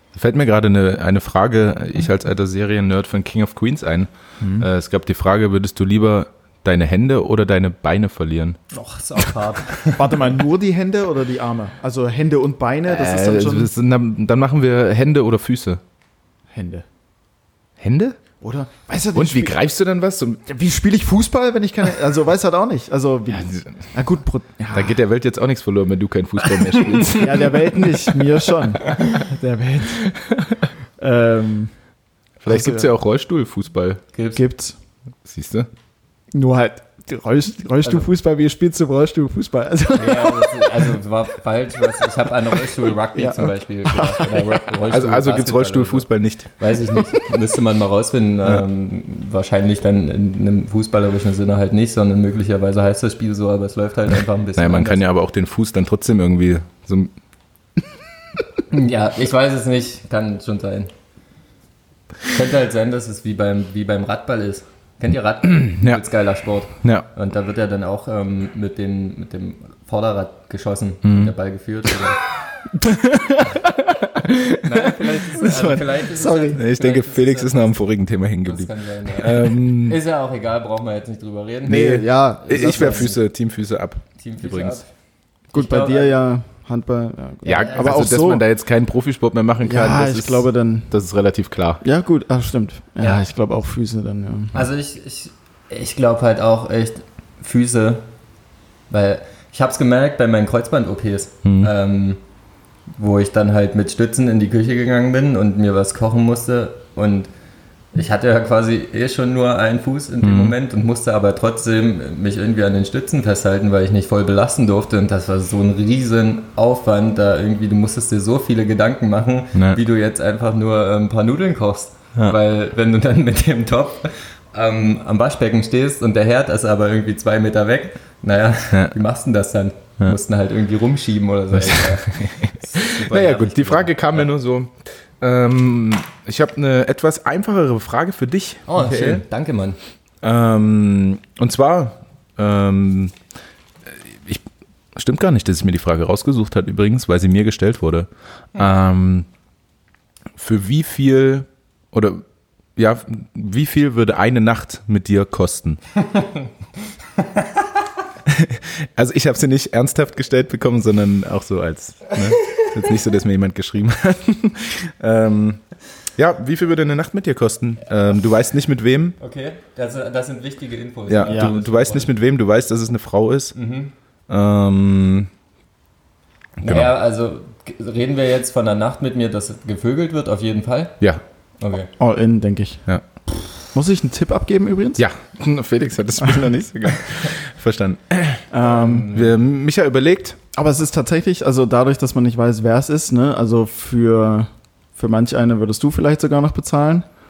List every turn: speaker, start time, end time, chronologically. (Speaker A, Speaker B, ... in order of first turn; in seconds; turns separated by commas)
Speaker A: 0.1-8.6, Speaker B: 4.4-4.7, Speaker C: 8.7-10.1, Speaker B: 9.9-13.7, Speaker A: 12.8-15.8, Speaker B: 16.5-16.8, Speaker A: 17.8-18.2, Speaker B: 18.4-19.6, Speaker A: 19.1-20.4, Speaker B: 20.4-25.0, Speaker A: 23.3-23.7, Speaker A: 24.7-27.6, Speaker B: 27.1-30.1, Speaker A: 30.1-30.5, Speaker B: 31.0-31.7, Speaker A: 32.4-34.0, Speaker B: 32.5-32.9, Speaker C: 34.1-34.4, Speaker B: 34.3-34.8, Speaker A: 35.2-35.7, Speaker B: 36.3-40.9, Speaker C: 39.9-55.0, Speaker B: 43.1-44.6, Speaker A: 44.9-46.5, Speaker A: 54.6-57.1, Speaker C: 58.7-60.9, Speaker C: 62.3-72.2, Speaker A: 65.6-66.0, Speaker A: 66.8-67.1, Speaker A: 71.0-71.3, Speaker B: 72.8-73.6, Speaker A: 73.9-80.0, Speaker C: 74.6-77.8, Speaker B: 76.1-76.6, Speaker C: 78.4-83.2, Speaker B: 81.7-83.1, Speaker A: 81.7-84.8, Speaker C: 84.2-84.8, Speaker B: 85.5-88.4, Speaker C: 85.5-86.1, Speaker A: 87.4-91.8, Speaker C: 87.5-88.0, Speaker B: 89.6-90.9, Speaker B: 91.8-94.5, Speaker C: 94.5-98.1, Speaker C: 98.9-102.2, Speaker A: 101.4-101.7, Speaker C: 103.0-107.3, Speaker C: 107.9-134.3, Speaker A: 110.2-110.5, Speaker A: 119.5-119.8, Speaker A: 131.5-139.2, Speaker C: 138.7-139.8, Speaker A: 140.2-143.1, Speaker A: 143.9-144.4, Speaker A: 144.9-149.3, Speaker A: 150.4-152.2, Speaker A: 152.8-155.8, Speaker A: 158.3-165.6, Speaker A: 166.2-169.2, Speaker C: 169.2-172.1, Speaker A: 171.1-173.6, Speaker B: 171.3-171.5, Speaker C: 173.5-173.9, Speaker A: 174.3-175.3, Speaker C: 176.6-181.0, Speaker A: 176.6-176.9, Speaker C: 181.6-181.9, Speaker B: 182.0-182.8, Speaker B: 183.7-185.0, Speaker A: 185.0-188.4, Speaker B: 188.5-189.1, Speaker C: 188.6-189.3, Speaker A: 189.1-190.4, Speaker B: 190.5-197.1